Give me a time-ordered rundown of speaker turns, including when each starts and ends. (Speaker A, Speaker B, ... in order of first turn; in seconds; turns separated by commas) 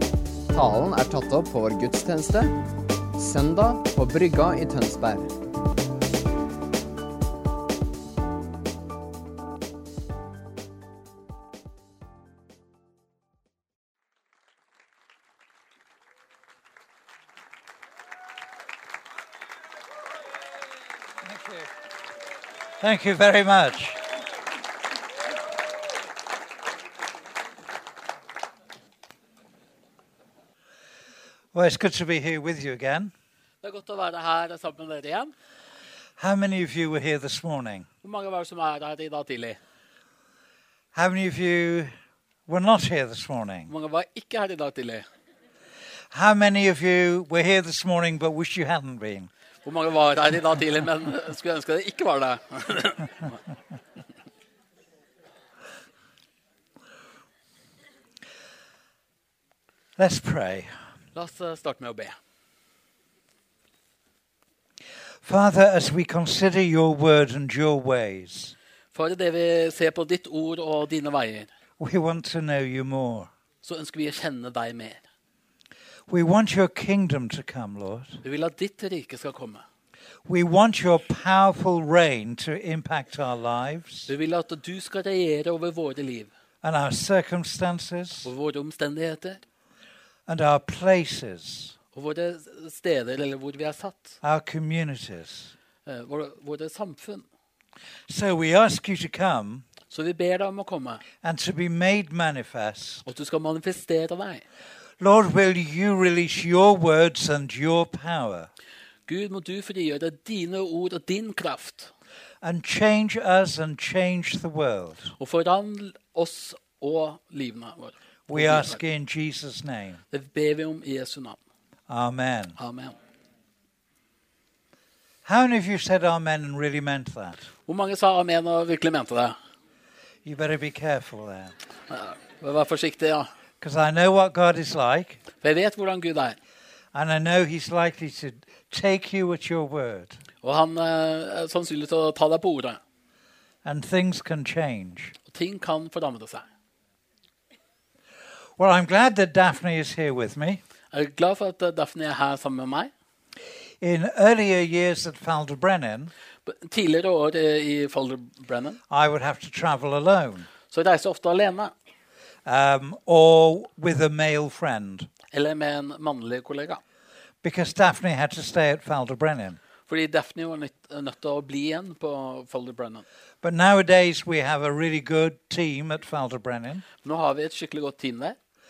Speaker A: 0.5-2.6, Speaker A: 3.1-5.4, Speaker B: 21.2-21.7, Speaker B: 22.8-24.0, Speaker B: 31.5-33.1, Speaker C: 33.6-35.3, Speaker B: 36.2-37.9, Speaker C: 38.0-39.6, Speaker B: 41.0-41.9, Speaker B: 42.5-43.7, Speaker C: 43.7-45.0, Speaker B: 46.1-49.3, Speaker C: 49.6-53.3, Speaker B: 60.0-60.7, Speaker C: 61.1-62.2, Speaker B: 65.2-68.5, Speaker C: 68.9-71.5, Speaker B: 71.8-73.3, Speaker C: 73.6-75.0, Speaker B: 76.1-78.2, Speaker C: 78.2-79.6, Speaker B: 80.3-84.1, Speaker C: 84.1-86.3, Speaker B: 86.6-88.3, Speaker C: 88.2-89.4, Speaker B: 90.3-91.8, Speaker C: 91.9-94.2, Speaker B: 94.2-95.5, Speaker C: 95.9-97.3, Speaker B: 98.1-99.7, Speaker C: 99.9-101.0, Speaker B: 101.2-103.0, Speaker C: 103.0-104.4, Speaker B: 105.0-108.5, Speaker C: 109.1-111.9, Speaker B: 112.4-115.1, Speaker C: 115.2-118.8, Speaker B: 118.3-120.0, Speaker C: 120.1-121.4, Speaker B: 121.9-122.6, Speaker C: 122.6-123.0, Speaker B: 125.2-127.5, Speaker C: 127.7-129.4, Speaker B: 130.2-131.6, Speaker C: 131.9-133.3, Speaker B: 133.6-135.2, Speaker C: 135.4-136.4, Speaker B: 136.9-140.2, Speaker C: 140.4-142.8, Speaker B: 143.6-145.2, Speaker C: 145.3-146.5, Speaker B: 148.6-150.6, Speaker C: 150.9-152.9, Speaker B: 153.8-156.1, Speaker C: 156.4-158.8, Speaker B: 158.9-160.5, Speaker C: 160.7-161.7, Speaker B: 162.4-165.1, Speaker C: 165.3-166.8, Speaker B: 167.4-169.6, Speaker C: 169.9-173.1, Speaker B: 173.4-176.8, Speaker C: 177.0-178.4